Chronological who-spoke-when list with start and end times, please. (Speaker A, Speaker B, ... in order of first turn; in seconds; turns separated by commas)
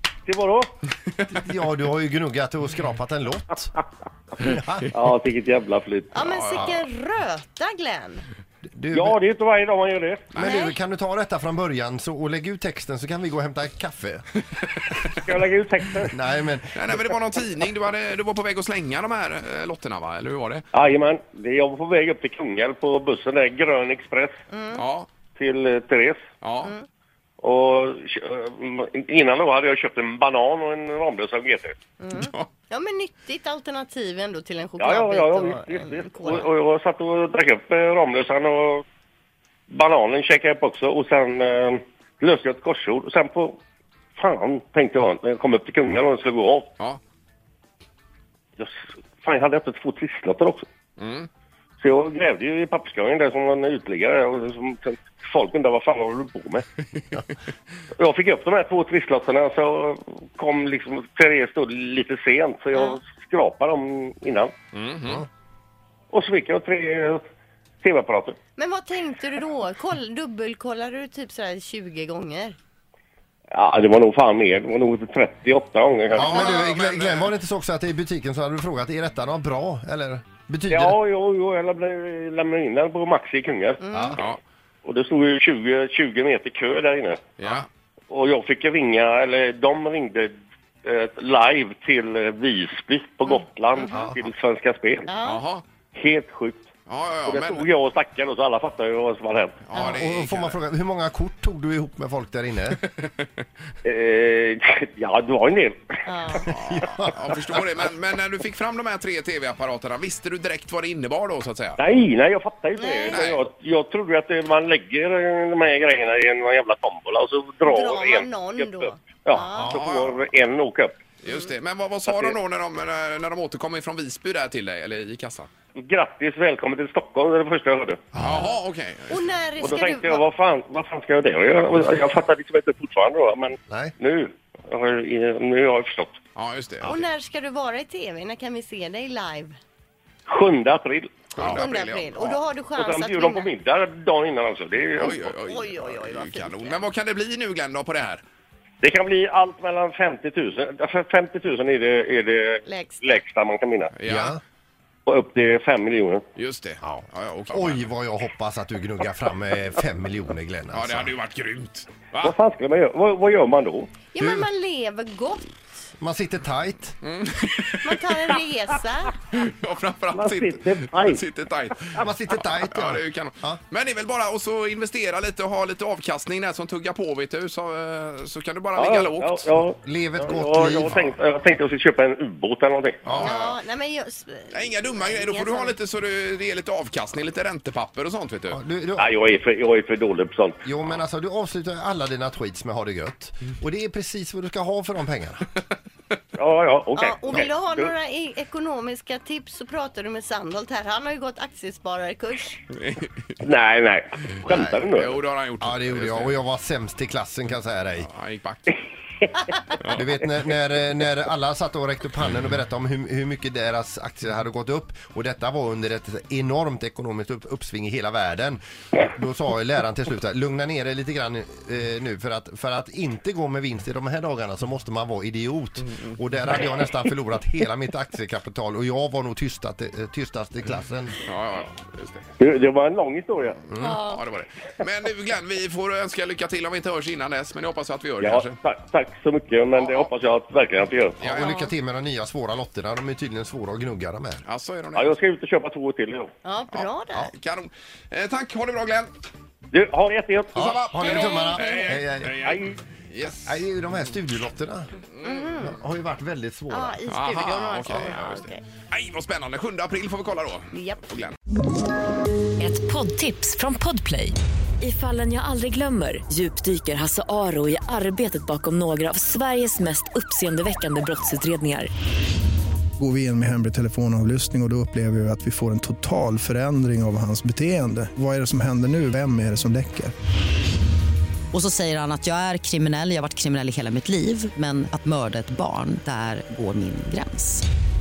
Speaker A: 0.2-0.7, Speaker B: 1.3-3.8, Speaker B: 4.4-5.0, Speaker A: 4.9-6.2, Speaker C: 6.1-8.3, Speaker D: 6.2-6.8, Speaker B: 8.6-9.2, Speaker A: 8.9-10.3, Speaker D: 10.3-10.6, Speaker B: 10.3-14.3, Speaker C: 10.4-10.8, Speaker A: 15.1-16.1, Speaker B: 16.1-17.1, Speaker D: 16.7-20.6, Speaker A: 20.7-24.4, Speaker C: 24.5-24.8, Speaker D: 24.7-25.1, Speaker A: 25.4-26.2, Speaker D: 26.4-26.7, Speaker A: 27.4-31.8, Speaker C: 32.0-36.5, Speaker D: 32.1-32.5, Speaker A: 34.8-38.8, Speaker A: 39.7-43.6, Speaker A: 44.1-46.7, Speaker A: 48.6-50.6, Speaker D: 51.0-51.3, Speaker A: 51.8-56.6, Speaker A: 58.0-64.5, Speaker D: 64.7-65.2, Speaker A: 66.1-67.2, Speaker A: 67.8-68.4, Speaker C: 68.6-72.5, Speaker A: 73.5-76.5, Speaker B: 76.1-81.0, Speaker D: 76.2-77.3, Speaker C: 76.3-76.7, Speaker A: 80.7-83.8, Speaker C: 83.8-84.2, Speaker B: 83.9-84.2, Speaker A: 84.8-87.3, Speaker D: 87.4-87.7, Speaker A: 88.1-95.1, Speaker C: 93.3-94.1, Speaker C: 95.1-95.4, Speaker D: 95.2-95.6, Speaker A: 95.9-96.6, Speaker D: 96.9-97.7, Speaker A: 97.2-99.6, Speaker D: 99.7-100.5, Speaker B: 99.7-102.8, Speaker D: 102.8-103.2, Speaker A: 103.8-106.1, Speaker C: 106.0-106.5, Speaker B: 106.5-107.1, Speaker D: 106.5-111.8, Speaker A: 111.8-121.0, Speaker C: 112.8-113.2, Speaker D: 113.1-113.4, Speaker C: 117.6-119.8, Speaker D: 119.7-120.2, Speaker D: 121.2-125.5, Speaker A: 122.1-122.4, Speaker A: 125.8-128.0, Speaker B: 128.1-128.4, Speaker D: 128.1-129.2, Speaker C: 129.1-130.2, Speaker A: 129.6-136.2, Speaker B: 133.7-133.9, Speaker D: 136.3-137.0, Speaker C: 136.8-139.6, Speaker A: 140.3-141.6, Speaker D: 141.3-142.4, Speaker C: 141.4-143.5, Speaker A: 142.8-145.3, Speaker D: 144.9-148.2, Speaker C: 145.3-146.9, Speaker A: 148.8-153.9, Speaker C: 152.7-153.2, Speaker D: 153.9-154.3, Speaker B: 154.1-154.4, Speaker A: 155.1-156.2, Speaker D: 156.3-157.9, Speaker B: 156.8-161.1, Speaker D: 160.7-162.3, Speaker A: 162.2-163.9, Speaker C: 164.1-165.5, Speaker B: 164.2-164.5, Speaker B: 166.0-167.0, Speaker D: 167.0-168.1, Speaker C: 167.8-169.2, Speaker D: 169.3-179.5, Speaker A: 170.1-171.2, Speaker B: 171.9-173.6, Speaker A: 178.8-183.3, Speaker B: 179.8-181.1, Speaker D: 183.1-183.6, Speaker C: 183.2-185.7, Speaker D: 184.5-188.6, Speaker B: 188.5-189.1, Speaker A: 189.0-190.6, Speaker B: 190.6-195.5, Speaker A: 196.3-197.9, Speaker C: 196.9-202.6, Speaker D: 202.8-203.3, Speaker A: 203.4-205.2, Speaker B: 204.5-204.8, Speaker D: 204.9-206.3, Speaker B: 205.6-208.1, Speaker D: 208.0-208.8, Speaker D: 209.8-210.0, Speaker B: 209.8-231.2, Speaker D: 231.2-232.2, Speaker A: 232.4-233.6, Speaker D: 233.7-238.5, Speaker C: 233.8-234.2, Speaker A: 238.2-241.3, Speaker D: 239.7-240.1, Speaker D: 241.2-241.6, Speaker B: 241.2-244.4, Speaker C: 241.3-241.7, Speaker D: 244.4-245.1, Speaker A: 244.9-246.3, Speaker C: 246.4-247.3, Speaker D: 246.7-249.1, Speaker A: 249.7-250.7, Speaker B: 250.5-252.5, Speaker D: 250.5-253.6, Speaker C: 251.0-251.9, Speaker A: 252.4-252.8, Speaker B: 253.4-254.9, Speaker D: 255.1-255.6, Speaker C: 255.2-255.8, Speaker B: 255.6-257.0, Speaker C: 256.7-258.6, Speaker D: 257.1-261.3, Speaker C: 260.7-261.0, Speaker E: 262.6-271.9, Speaker F: 273.0-280.1, Speaker G: 281.5-287.6